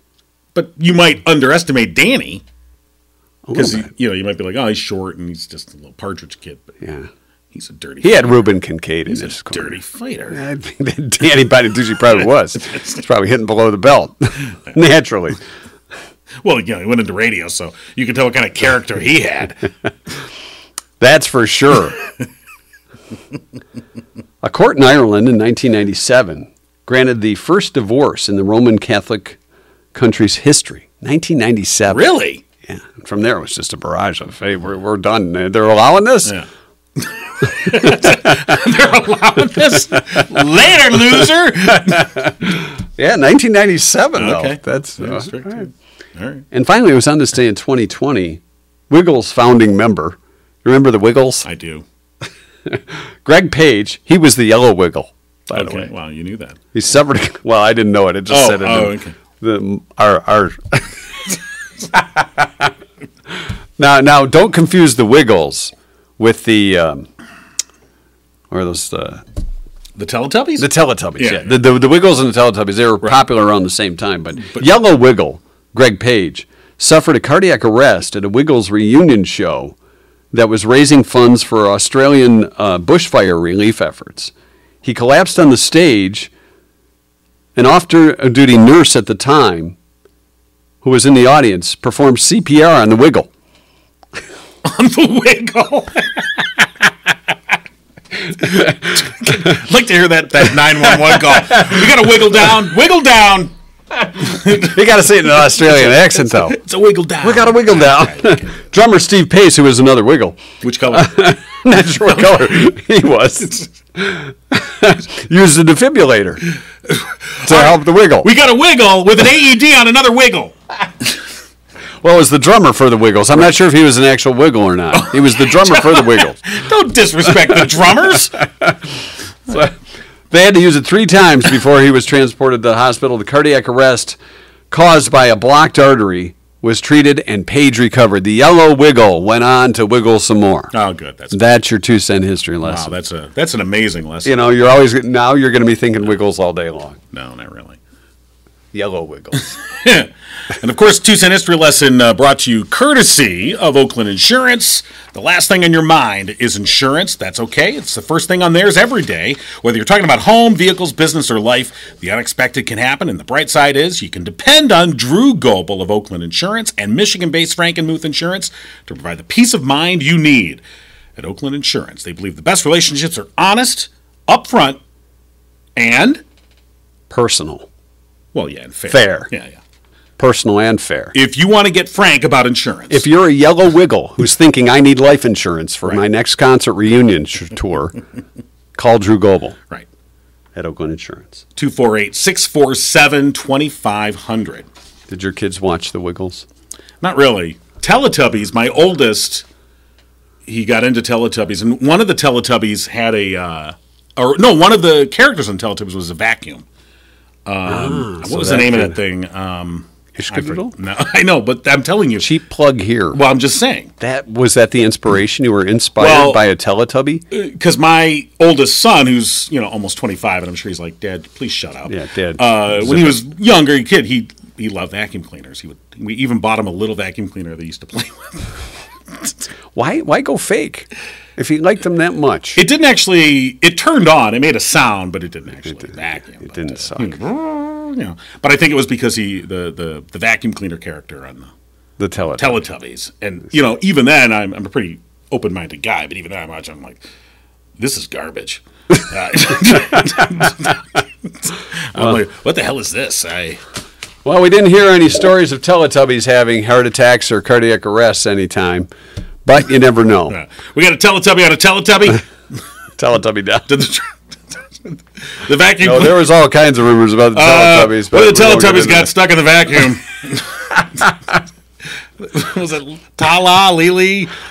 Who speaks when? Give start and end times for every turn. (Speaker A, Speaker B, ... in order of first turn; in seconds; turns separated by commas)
Speaker A: 0.5-2.4, Speaker B: 3.5-3.9, Speaker A: 3.5-6.8, Speaker B: 6.8-7.1, Speaker A: 7.5-8.5, Speaker B: 8.0-9.8, Speaker A: 9.1-10.4, Speaker B: 10.3-15.4, Speaker A: 16.4-19.6, Speaker B: 21.0-22.0, Speaker B: 24.4-29.4, Speaker B: 29.9-32.0, Speaker A: 31.9-32.4, Speaker B: 32.7-36.4, Speaker A: 37.0-42.1, Speaker B: 41.9-45.7, Speaker A: 44.2-45.6, Speaker A: 46.2-46.5, Speaker B: 46.5-51.5, Speaker A: 51.4-51.8, Speaker B: 52.7-55.9, Speaker A: 55.5-56.6, Speaker B: 56.7-60.9, Speaker A: 58.3-59.2, Speaker B: 62.4-62.7, Speaker B: 63.8-67.1, Speaker B: 68.5-69.2, Speaker A: 70.0-70.7, Speaker B: 70.6-79.8, Speaker A: 71.2-71.6, Speaker B: 80.3-84.3, Speaker B: 84.8-86.3, Speaker B: 87.6-89.8, Speaker B: 90.8-93.3, Speaker A: 94.6-96.7, Speaker A: 98.5-104.8, Speaker B: 101.1-101.9, Speaker B: 104.5-106.6, Speaker A: 105.5-108.3, Speaker B: 107.2-116.5, Speaker A: 110.6-111.3, Speaker A: 116.9-120.6, Speaker B: 117.4-118.3, Speaker B: 122.0-126.4, Speaker A: 124.9-128.4, Speaker B: 128.4-128.7, Speaker B: 130.3-134.2, Speaker B: 134.7-140.7, Speaker A: 140.7-141.4, Speaker B: 141.3-142.9, Speaker A: 142.6-144.5, Speaker B: 144.3-147.0, Speaker A: 147.1-147.8, Speaker B: 148.7-149.5, Speaker A: 149.8-170.6, Speaker A: 171.2-174.8, Speaker A: 175.8-176.2, Speaker B: 177.1-177.7, Speaker A: 178.3-179.6, Speaker B: 178.9-179.3, Speaker B: 180.2-181.1, Speaker A: 181.1-183.1, Speaker B: 182.9-188.0, Speaker B: 188.8-189.6, Speaker B: 190.6-191.4, Speaker A: 191.6-194.7, Speaker B: 195.1-196.5, Speaker A: 197.0-199.4, Speaker A: 200.5-206.7, Speaker A: 207.5-212.3, Speaker B: 207.7-209.0, Speaker B: 210.2-210.7, Speaker B: 212.2-213.2, Speaker A: 213.1-213.9, Speaker B: 214.0-217.2, Speaker A: 216.0-216.4, Speaker A: 217.3-228.5, Speaker B: 221.9-223.2, Speaker B: 229.8-232.6, Speaker A: 232.6-241.5, Speaker B: 235.7-237.2, Speaker B: 242.0-242.6, Speaker A: 242.4-247.0, Speaker A: 247.8-253.6, Speaker B: 254.2-258.9, Speaker B: 259.4-260.4, Speaker A: 260.3-262.2, Speaker B: 263.0-263.7, Speaker A: 263.7-266.2, Speaker B: 265.8-269.1, Speaker A: 267.3-271.2, Speaker A: 272.2-274.3